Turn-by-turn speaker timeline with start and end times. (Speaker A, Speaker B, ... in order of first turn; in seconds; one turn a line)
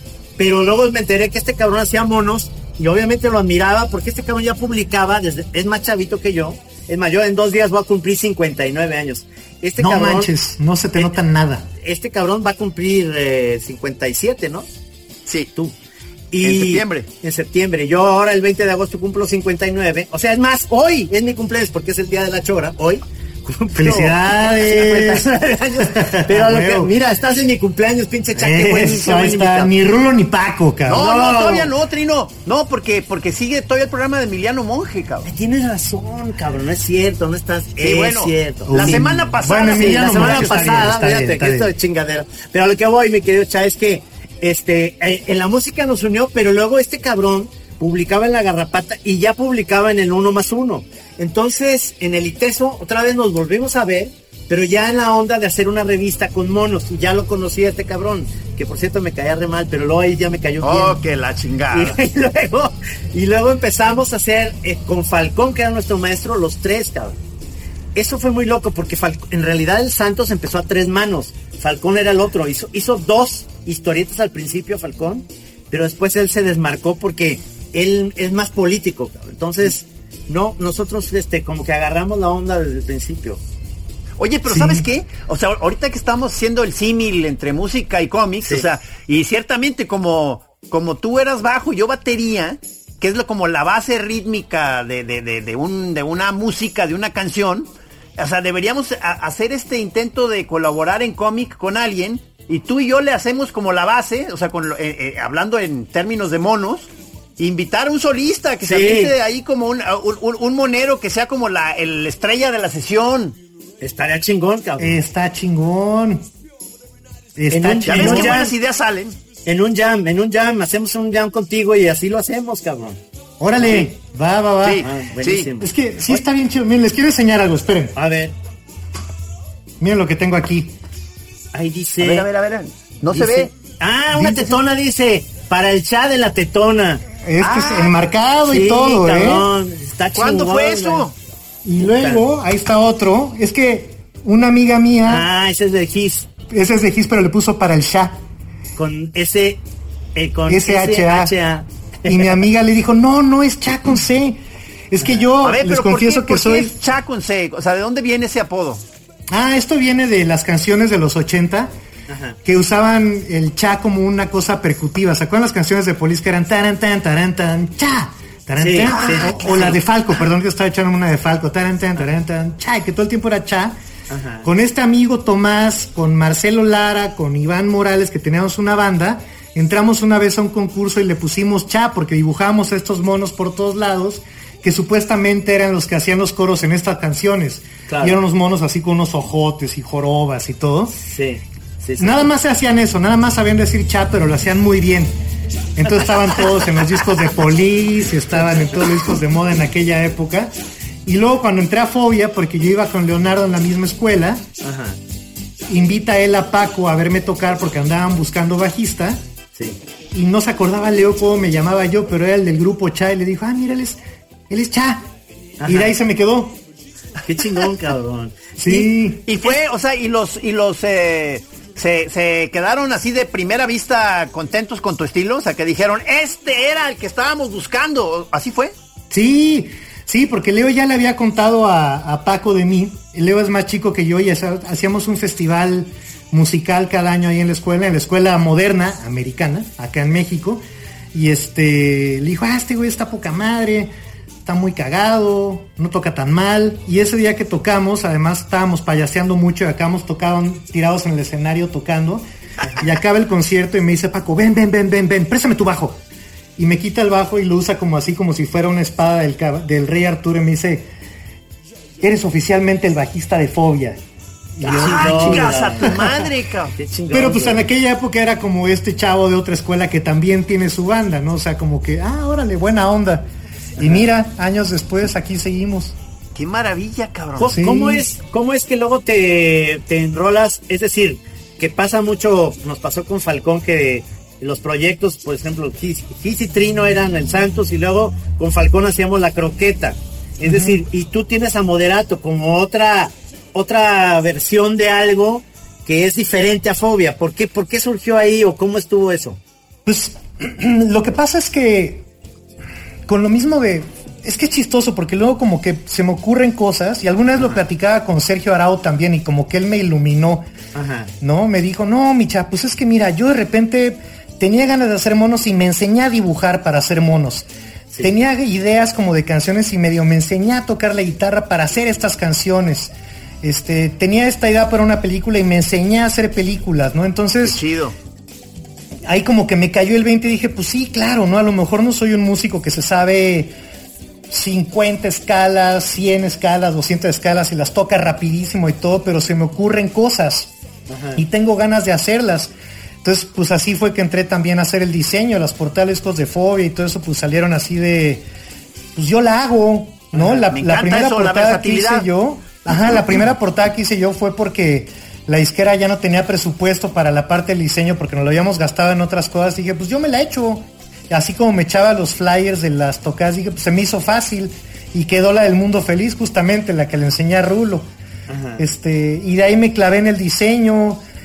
Speaker A: 0.4-10.3
Speaker B: 9.8-11.7
Speaker A: 11.8-14.7
Speaker A: 16.3-29.7
Speaker C: 16.4-17.1
Speaker B: 23.8-26.9
Speaker B: 28.4-31.1
Speaker A: 30.9-31.7
Speaker C: 30.9-35.3
Speaker A: 35.2-39.0
Speaker C: 37.8-40.9
Speaker B: 38.7-41.7
Speaker A: 39.7-61.0
Speaker C: 60.6-62.0
Speaker A: 61.7-67.2
Speaker A: 68.0-83.4
Speaker C: 84.2-113.4
Speaker B: 84.5-84.9
Speaker A: 108.7-109.1
Speaker A: 113.8-115.0
Speaker B: 114.8-116.3
Speaker B: 117.4-118.5
Speaker A: 117.5-118.5
Speaker C: 117.9-119.2
Speaker A: 119.5-123.0
Speaker B: 123.4-124.9
Speaker C: 124.6-125.5
Speaker A: 124.8-125.7
Speaker B: 125.6-128.0
Speaker A: 128.0-128.3
Speaker B: 129.8-130.8
Speaker A: 131.5-132.3
Speaker C: 132.0-133.5
Speaker A: 133.1-137.0
Speaker B: 134.1-134.6
Speaker B: 137.2-139.5
Speaker C: 137.4-137.9
Speaker A: 138.5-141.1
Speaker C: 140.2-141.1
Speaker B: 141.7-145.3
Speaker A: 141.8-142.2
Speaker A: 145.1-146.3
Speaker B: 146.5-148.2
Speaker A: 148.8-149.6
Speaker A: 150.2-152.4
Speaker B: 150.5-151.3
Speaker B: 152.1-156.8
Speaker C: 155.4-158.8
Speaker B: 159.3-161.7
Speaker A: 162.1-162.4
Speaker B: 162.4-173.8
Speaker A: 168.6-169.8
Speaker C: 169.1-169.4
Speaker A: 174.1-174.5
Speaker B: 174.4-191.0
Speaker A: 187.9-188.2
Speaker A: 191.0-192.3
Speaker B: 192.0-195.2
Speaker B: 195.8-200.5
Speaker B: 201.1-204.4
Speaker A: 204.6-205.0
Speaker B: 205.7-209.2
Speaker B: 210.1-215.1
Speaker A: 215.6-215.9
Speaker B: 215.7-216.6
Speaker A: 217.2-219.6
Speaker B: 218.6-219.2
Speaker C: 219.3-228.7
Speaker B: 229.1-240.6
Speaker B: 241.1-243.9
Speaker B: 244.4-252.2
Speaker B: 252.8-256.0
Speaker B: 256.6-260.9
Speaker B: 262.0-264.0
Speaker B: 264.6-266.2
Speaker A: 264.6-266.1
Speaker C: 264.7-266.8
Speaker A: 266.8-267.7
Speaker B: 267.1-276.0
Speaker A: 273.8-274.1
Speaker C: 276.4-277.6
Speaker A: 277.4-299.4
Speaker B: 277.5-278.1
Speaker B: 290.4-290.8
Speaker B: 299.9-302.1
Speaker B: 303.1-310.5
Speaker A: 310.7-311.1
Speaker B: 311.2-317.5
Speaker B: 318.0-327.6
Speaker C: 327.4-327.9
Speaker B: 329.1-333.5
Speaker B: 334.3-340.5
Speaker A: 340.9-341.2
Speaker B: 341.2-348.2
Speaker B: 348.9-367.9
Speaker A: 350.1-350.4
Speaker C: 350.5-352.1
Speaker A: 368.3-368.6
Speaker B: 368.6-371.0